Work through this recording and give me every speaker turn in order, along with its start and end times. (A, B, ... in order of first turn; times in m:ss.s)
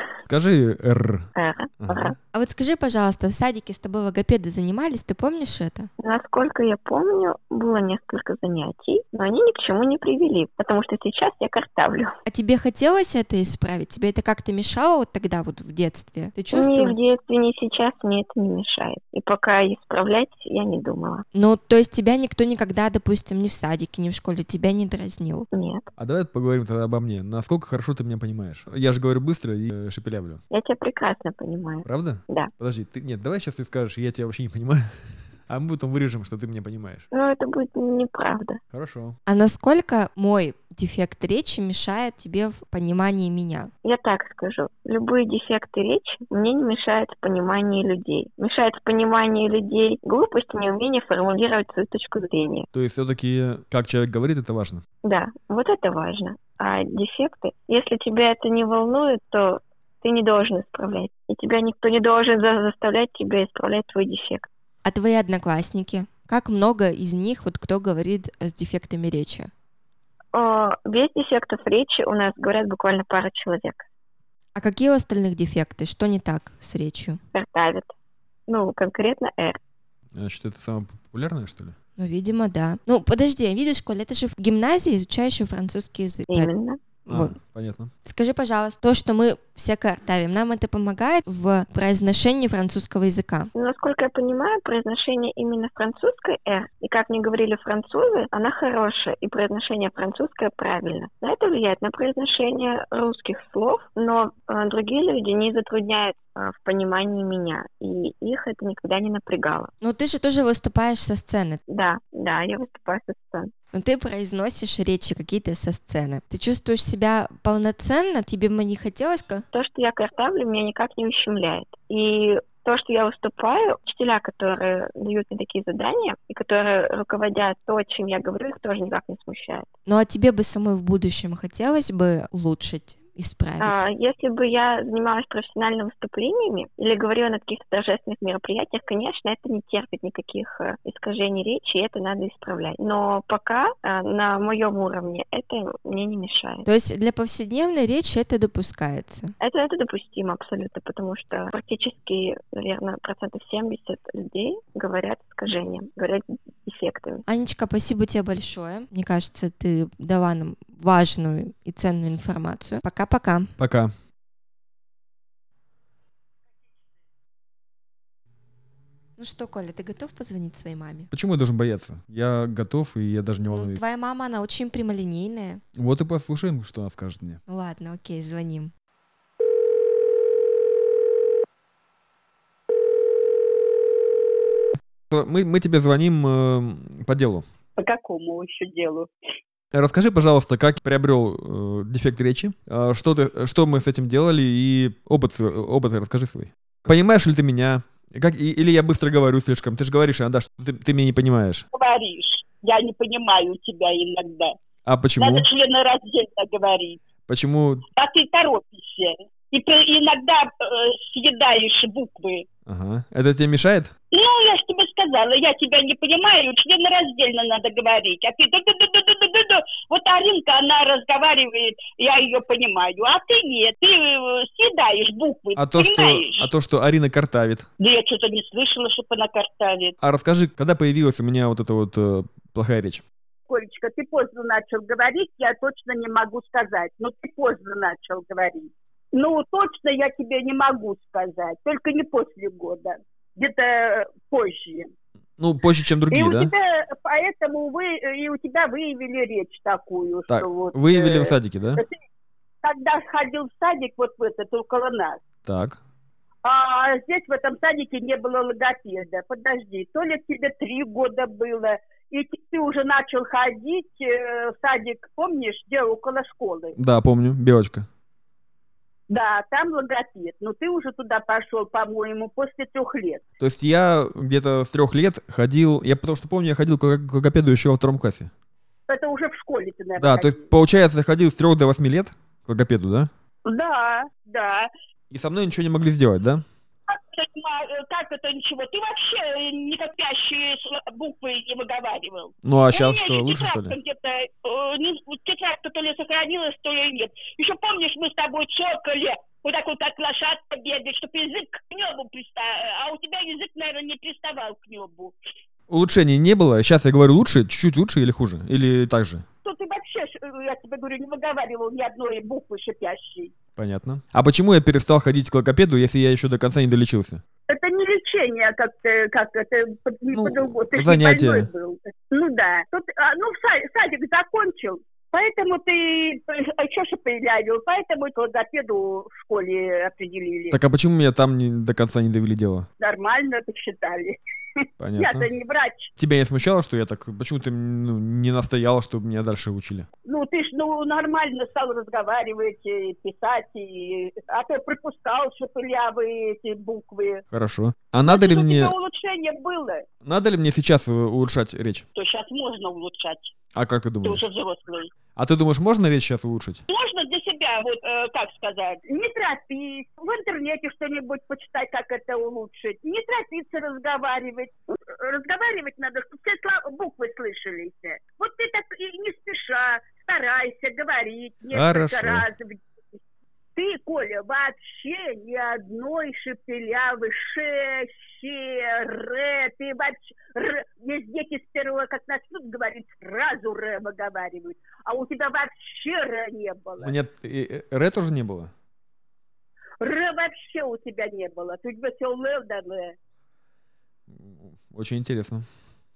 0:00.3-0:02.1 A
0:01.3-0:02.2 B
0:02.3-0:05.9 C
0:06.0-0:12.1 B
0:12.2-0:17.0 C
0:16.5-0:21.2 B
0:21.3-0:25.5 C
0:25.5-0:25.8 B
0:26.0-0:30.4 A
0:30.5-0:32.5 B
0:31.8-0:37.1 A
0:37.1-0:38.6 B
0:38.7-0:39.2 A
0:39.2-0:43.7 C
0:43.8-0:52.7 B
0:52.7-0:54.8 A
0:55.0-1:04.5 B
1:04.8-1:09.5 C
1:10.3-1:13.8 B
1:14.5-1:17.2 C
1:17.3-1:17.9 B
1:18.5-1:19.6 B
1:20.1-1:21.8 A
1:22.0-1:26.5 C
1:26.3-1:26.8 B
1:27.1-1:27.4 C
1:27.1-1:27.9 A
1:28.0-1:33.5 C
1:33.5-1:49.7 B
1:49.8-1:51.6 C
1:51.7-1:53.5 B
1:53.7-1:59.4 C
1:59.5-2:09.7 B
2:09.9-2:13.9 C
2:13.6-2:26.6 B
2:26.6-2:29.3 C
2:29.4-2:37.2 B
2:37.3-2:43.5 C
2:43.6-2:43.9 A
2:49.2-2:51.1 C
2:51.1-2:53.8 A
2:53.5-2:55.6 C
2:55.7-2:57.4 A
2:57.5-2:58.7 C
3:05.1-3:07.4 A
3:07.8-3:09.1 D
3:09.7-3:21.6 A
3:21.7-3:24.6 D
3:24.8-3:25.5 A
3:25.2-3:27.0 D
3:27.2-3:27.8 A
3:28.0-3:32.4 D
3:32.7-3:33.9 A
3:34.1-3:46.5 D
3:45.6-3:47.7 A
3:47.8-3:49.9 D
3:50.0-3:53.0 A
3:53.5-4:04.9 D
4:05.4-4:06.5 A
4:06.1-4:12.0 D
4:10.3-4:11.8 A
4:12.6-4:15.2 D
4:15.4-4:15.8 A
4:16.4-4:26.8 D
4:26.8-4:27.9 A
4:29.1-4:33.2 D
4:33.4-4:38.3 A
4:38.9-4:40.4 D
4:40.0-4:43.1 A
4:43.4-4:44.7 D
4:45.1-4:46.4 A
4:46.9-5:05.1 D
4:52.4-4:53.8 A
5:05.7-5:09.2 A
5:09.4-5:13.3 D
5:13.6-5:17.2 A
5:17.5-5:30.6 D
5:20.1-5:21.5 A
5:30.5-5:32.7 A
5:32.8-5:35.9 D
5:34.8-5:35.3 A
5:36.0-5:39.9 A
5:40.0-5:47.2 D
5:47.3-5:48.7 A
5:48.0-5:49.8 D
5:50.0-5:51.8 A
5:51.9-5:53.3 D
5:53.5-5:54.3 A
5:54.0-5:54.9 D
5:55.2-5:56.6 A
5:56.7-6:12.6 D
6:11.5-6:12.3 A
6:13.5-6:26.9 D
6:26.8-6:28.5 A
6:29.8-6:33.0 D
6:34.1-6:35.5 A